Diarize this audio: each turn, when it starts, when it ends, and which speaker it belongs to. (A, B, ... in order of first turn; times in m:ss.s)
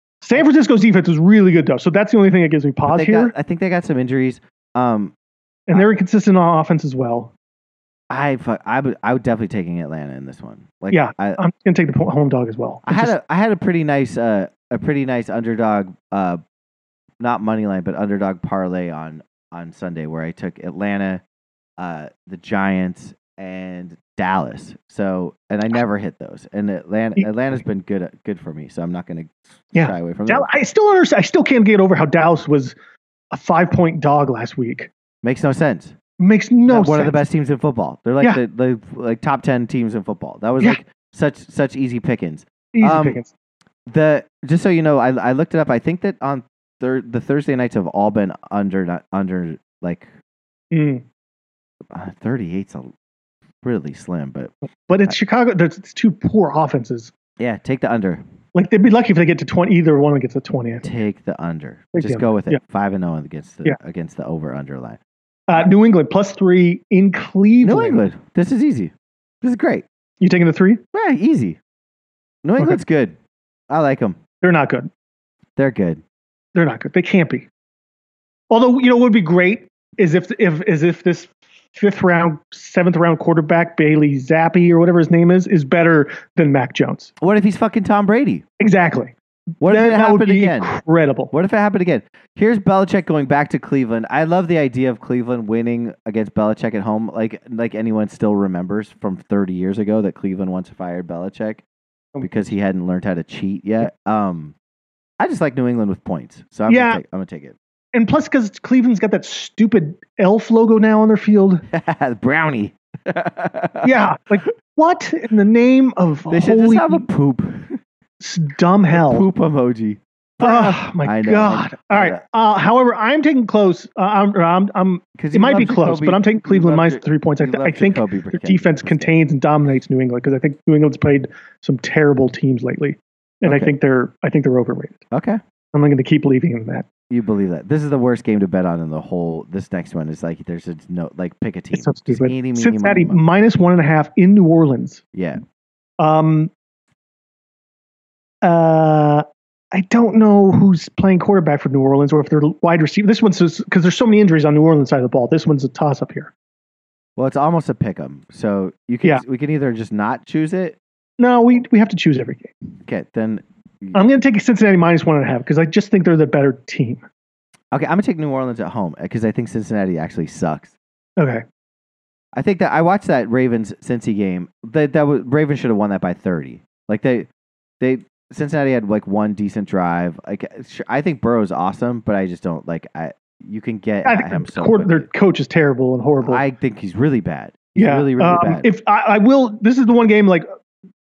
0:00.2-0:03.3 A
0:02.9-0:05.1 B
0:05.7-0:07.3 A
0:08.1-0:11.4 B
0:10.9-0:13.1 A
0:12.8-0:16.4 B
0:17.2-0:21.2 B
0:21.8-0:30.5 B
0:29.7-0:32.8 A
0:33.3-0:34.9 A
0:35.2-0:36.0 B
0:36.2-0:37.2 A
0:36.7-0:43.2 B
0:42.7-0:43.3 A
0:43.9-0:50.1 B
0:50.7-0:51.0 A
0:51.9-0:52.9 B
0:53.6-0:54.5 B
0:54.9-0:57.1 A
0:57.4-0:58.2 B
0:58.5-1:00.9 A
1:00.8-1:05.0 B
1:02.0-1:02.6 A
1:05.5-1:08.0 A
1:07.6-1:09.8 B
1:10.2-1:10.8 A
1:10.9-1:11.6 B
1:12.4-1:13.2 B
1:13.7-1:14.2 B
1:14.4-1:14.9 A
1:15.6-1:16.0 B
1:16.6-1:17.5 A
1:18.5-1:27.1 A
1:27.2-1:28.4 B
1:28.6-1:29.1 A
1:29.6-1:30.8 B
1:29.6-1:31.3 A
1:31.3-1:41.6 B
1:42.2-1:44.5 B
1:45.2-1:47.6 B
1:46.7-1:47.0 A
1:47.9-1:51.6 A
1:51.7-1:53.9 B
1:53.8-1:57.1 A
1:56.3-1:57.8 B
1:58.2-1:59.3 A
1:58.9-2:02.2 B
2:00.4-2:15.0 A
2:05.2-2:09.2 B
2:13.4-2:13.7 B
2:15.1-2:15.4 B
2:15.7-2:16.9 A
2:17.1-2:23.2 B
2:21.7-2:25.0 A
2:25.1-2:25.4 B
2:26.0-2:26.5 A
2:28.4-2:36.3 A
2:37.2-2:40.8 B
2:41.2-2:42.5 A
2:42.9-2:44.0 B
2:43.9-2:47.0 A
2:47.7-2:50.8 B
2:51.2-2:51.4 A
2:52.3-2:57.3 B
2:57.8-3:05.1 B
3:04.0-3:06.4 A
3:06.2-3:08.7 B
3:07.8-3:10.4 A